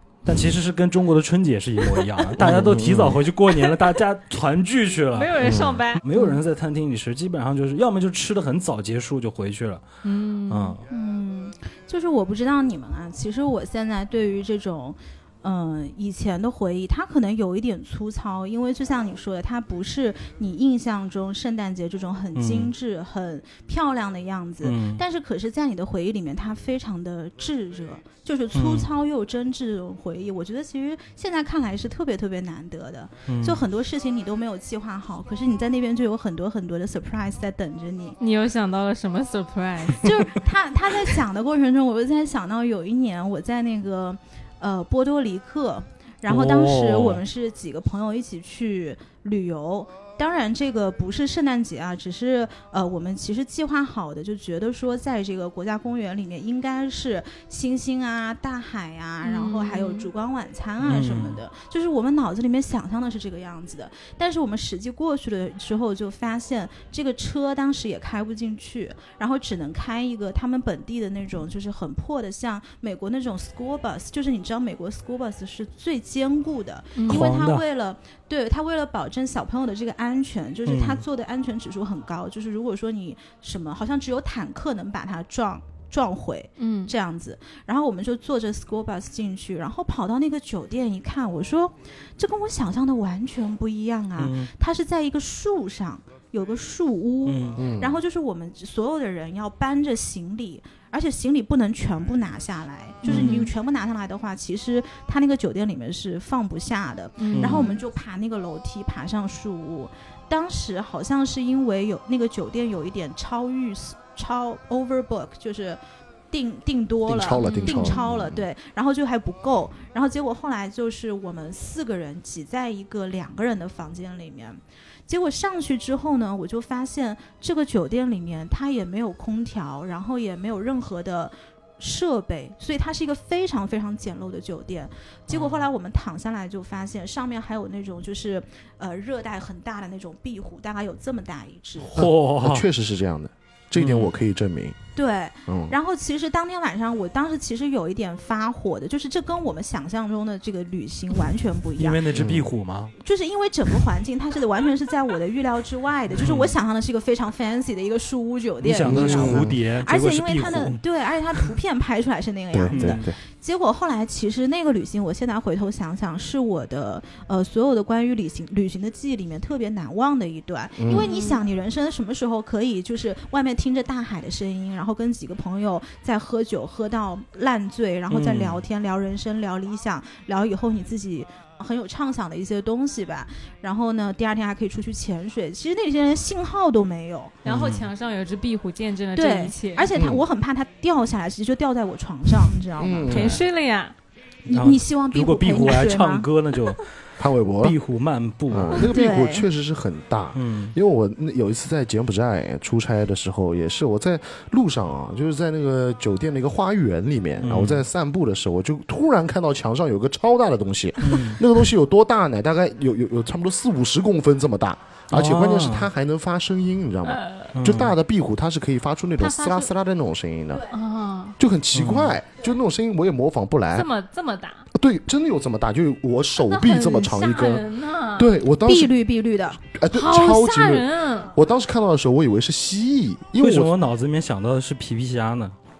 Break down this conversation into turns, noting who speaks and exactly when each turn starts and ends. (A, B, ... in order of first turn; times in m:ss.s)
0:00.2-0:09.8 A
0:02.4-0:03.2 B
0:03.5-0:03.9 C
0:05.1-0:06.0 C
0:05.4-0:05.8 B
0:10.0-0:10.8 C
0:10.5-0:10.8 A
0:10.9-0:38.2 D
0:22.4-0:22.7 A
0:24.6-0:25.0 A
0:28.5-0:28.9 A
0:33.3-0:33.6 A
0:38.2-0:40.1 C
0:40.0-1:55.8 D
0:46.3-0:47.2 A
0:59.2-1:00.1 C
1:00.8-1:01.4 A
1:17.0-1:17.3 C
1:17.1-1:17.6 A
1:20.7-1:21.0 A
1:26.6-1:26.9 C
1:34.2-1:34.5 A
1:37.2-1:37.6 A
1:37.6-1:38.0 B
1:43.0-1:43.5 A
1:43.1-1:43.5 C
1:47.2-1:47.8 C
1:47.4-1:47.7 A
1:56.3-2:22.0 D
1:57.0-1:58.5 B
1:57.4-1:58.0 C
2:15.3-2:15.6 A
2:21.9-2:22.7 A
2:22.0-2:24.8 B
2:23.8-2:24.1 A
2:25.0-2:32.0 D
2:25.5-2:25.8 B
2:31.8-2:32.9 A
2:32.1-2:32.5 B
2:33.0-3:07.4 D
2:36.1-2:36.6 A
2:38.6-2:40.8 A
2:38.8-2:39.6 B
2:42.5-2:43.2 B
2:42.7-2:43.0 A
2:50.8-2:51.1 B
2:50.9-2:51.4 C
2:58.1-2:58.6 A
3:07.4-3:07.9 A
3:07.4-3:09.9 C
3:09.2-3:13.3 D
3:09.9-3:10.2 B
3:12.8-3:13.4 B
3:13.1-3:14.0 C
3:14.5-3:16.3 D
3:14.5-3:16.9 A
3:17.2-3:17.8 B
3:17.6-3:18.9 A
3:18.5-3:40.7 B
3:18.8-3:19.5 D
3:20.3-3:20.7 A
3:27.4-3:27.8 A
3:31.0-3:31.4 A
3:35.1-3:35.9 A
3:37.1-3:37.6 C
3:37.5-3:38.0 A
3:39.2-3:39.7 C
3:40.7-3:41.4 C
3:41.4-3:43.9 B
3:41.7-3:42.2 A
3:43.7-3:44.7 C
3:44.7-3:49.0 B
3:46.4-3:48.3 C
3:48.6-3:49.6 D
3:49.6-3:53.7 B
3:49.9-3:51.4 C
3:53.4-3:55.5 A